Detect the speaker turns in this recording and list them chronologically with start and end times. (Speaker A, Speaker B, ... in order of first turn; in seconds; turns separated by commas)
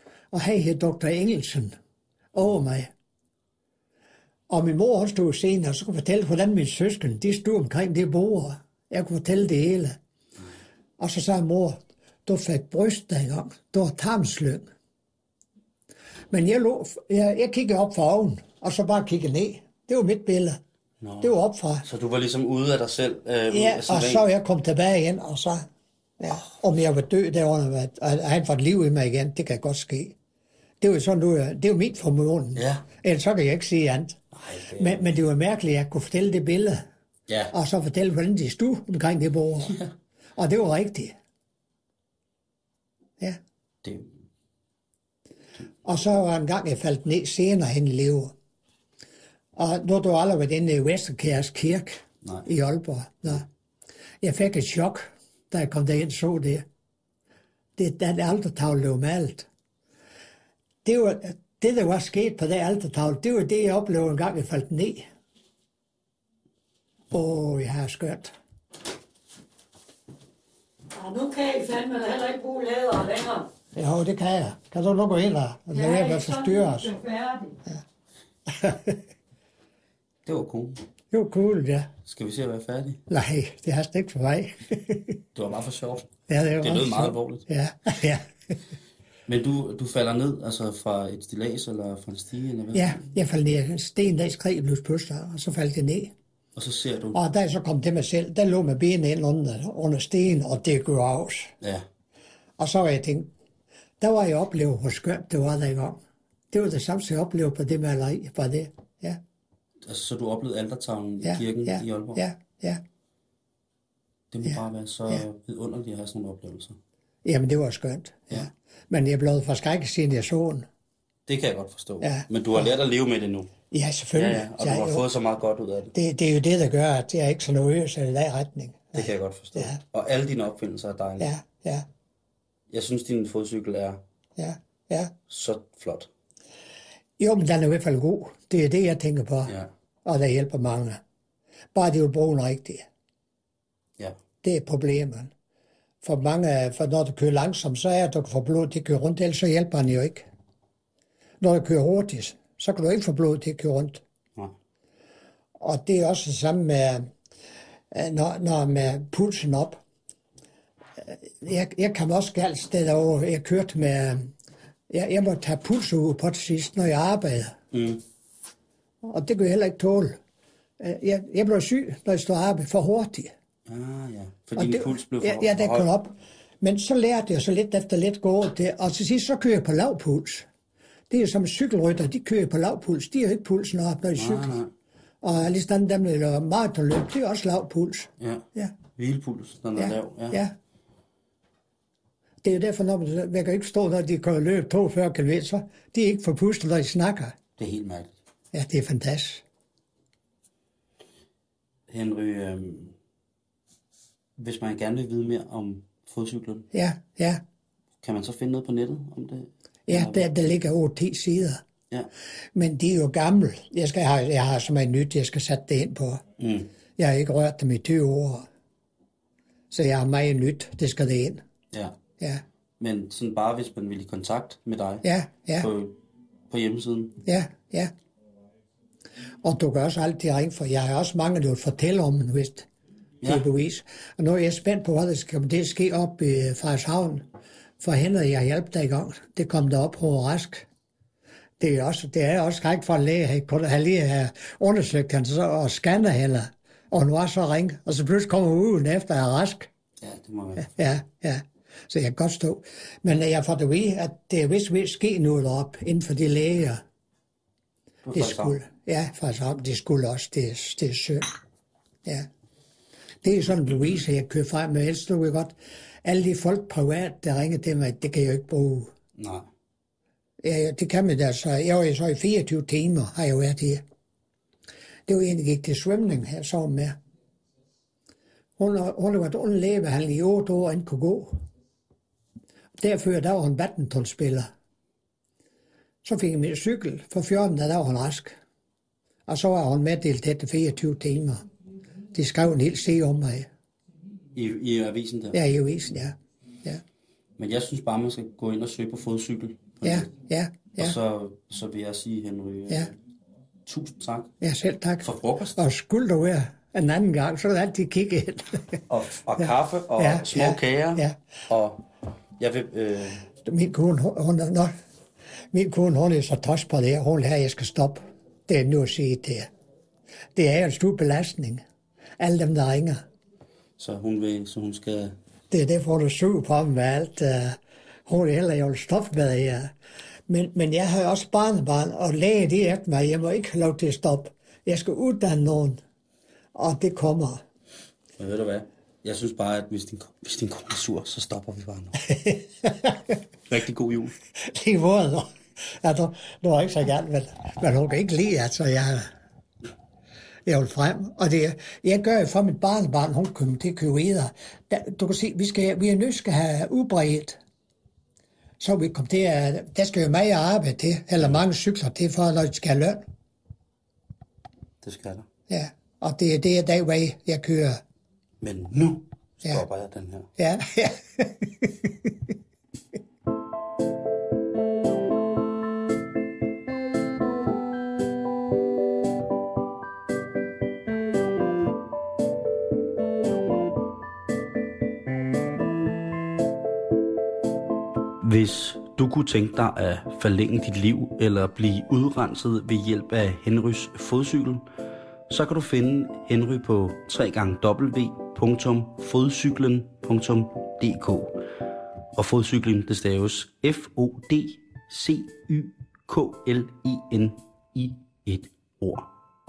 Speaker A: 0.3-1.7, Speaker A: 2.3-2.9, Speaker A: 4.5-9.9, Speaker A: 11.0-14.7, Speaker A: 16.3-20.6, Speaker B: 21.0-24.2, Speaker A: 21.2-21.8, Speaker A: 23.5-25.7, Speaker A: 26.2-30.1, Speaker A: 30.8-34.2, Speaker B: 32.5-32.8, Speaker B: 34.3-35.0, Speaker A: 34.8-36.9, Speaker B: 37.3-37.5, Speaker A: 37.5-39.8, Speaker A: 40.4-41.1, Speaker B: 43.8-44.1, Speaker A: 45.8-48.3, Speaker A: 49.5-53.5, Speaker A: 54.2-56.6, Speaker A: 57.8-59.5, Speaker A: 60.8-65.0, Speaker A: 67.1-68.3, Speaker C: 70.9-73.5, Speaker A: 73.7-76.9, Speaker C: 75.7-77.6, Speaker A: 78.5-79.0, Speaker B: 80.2-80.8, Speaker A: 81.1-81.9, Speaker B: 82.0-83.0, Speaker A: 83.1-85.2, Speaker B: 85.3-87.5, Speaker A: 86.3-88.3, Speaker B: 89.2-93.1, Speaker A: 92.7-96.1, Speaker B: 96.5-97.2, Speaker A: 97.1-101.5, Speaker A: 102.6-103.3, Speaker A: 104.0-106.0, Speaker A: 106.5-109.2, Speaker B: 109.8-112.2, Speaker A: 111.2-112.8, Speaker B: 114.3-116.8, Speaker A: 117.2-120.7, Speaker B: 121.2-123.5, Speaker A: 123.7-125.0, Speaker B: 124.2-125.9, Speaker A: 125.9-129.8, Speaker B: 128.9-131.3, Speaker A: 131.2-131.8, Speaker B: 132.7-134.0, Speaker A: 134.4-135.1, Speaker B: 135.3-136.1, Speaker A: 137.2-141.0, Speaker A: 141.7-142.8, Speaker A: 144.4-145.3, Speaker A: 146.0-150.2, Speaker A: 151.4-154.0, Speaker A: 155.6-157.1, Speaker A: 157.9-159.8, Speaker A: 161.0-164.3, Speaker A: 164.9-167.6, Speaker B: 167.7-168.0, Speaker A: 169.0-170.2, Speaker A: 170.8-173.3, Speaker B: 173.7-175.9, Speaker A: 174.6-180.4, Speaker A: 181.1-184.6, Speaker B: 184.1-184.7, Speaker A: 185.2-188.7, Speaker B: 188.2-190.4, Speaker A: 189.8-190.5, Speaker A: 192.4-197.4, Speaker B: 197.6-198.2, Speaker A: 198.5-199.4, Speaker B: 201.9-202.9, Speaker B: 204.4-206.7, Speaker A: 206.7-207.4, Speaker B: 208.0-210.5, Speaker A: 209.9-211.6, Speaker A: 212.5-216.2, Speaker B: 216.4-216.7, Speaker A: 217.0-218.5, Speaker A: 219.7-221.4, Speaker B: 221.7-222.0, Speaker B: 222.8-225.1, Speaker A: 225.0-225.7, Speaker B: 225.6-226.0, Speaker B: 226.5-227.2, Speaker A: 227.2-227.9, Speaker A: 229.4-232.7, Speaker A: 233.2-237.2, Speaker A: 237.8-240.7, Speaker A: 241.6-249.7, Speaker B: 250.0-250.8, Speaker A: 250.6-256.8, Speaker B: 258.0-258.6, Speaker A: 258.1-261.3, Speaker A: 263.2-265.5, Speaker A: 266.0-268.9, Speaker B: 269.1-269.5, Speaker A: 270.4-273.8, Speaker A: 275.1-277.0, Speaker A: 278.6-281.4, Speaker A: 282.8-284.5, Speaker A: 286.0-288.4, Speaker A: 289.3-291.4, Speaker A: 292.1-293.5, Speaker B: 294.3-295.4, Speaker A: 295.3-296.8, Speaker B: 297.4-300.1, Speaker A: 299.8-300.9, Speaker B: 300.7-302.9, Speaker B: 303.6-304.3, Speaker A: 304.4-308.8, Speaker B: 305.0-305.6, Speaker B: 308.9-311.8, Speaker A: 310.0-311.1, Speaker B: 312.4-313.2, Speaker A: 313.4-314.7, Speaker A: 315.5-319.5, Speaker A: 320.3-321.6, Speaker A: 322.2-323.0, Speaker B: 323.8-325.1, Speaker A: 325.5-329.7, Speaker A: 330.3-335.8, Speaker A: 336.5-337.4, Speaker B: 338.2-342.0, Speaker A: 342.1-342.9, Speaker B: 343.5-344.1, Speaker A: 344.4-349.1, Speaker A: 350.4-357.4, Speaker A: 358.6-363.0, Speaker B: 364.8-365.3, Speaker A: 365.5-367.8, Speaker B: 368.4-370.3, Speaker A: 370.4-371.9, Speaker B: 388.2-394.6, Speaker B: 395.3-401.4, Speaker B: 402.1-409.1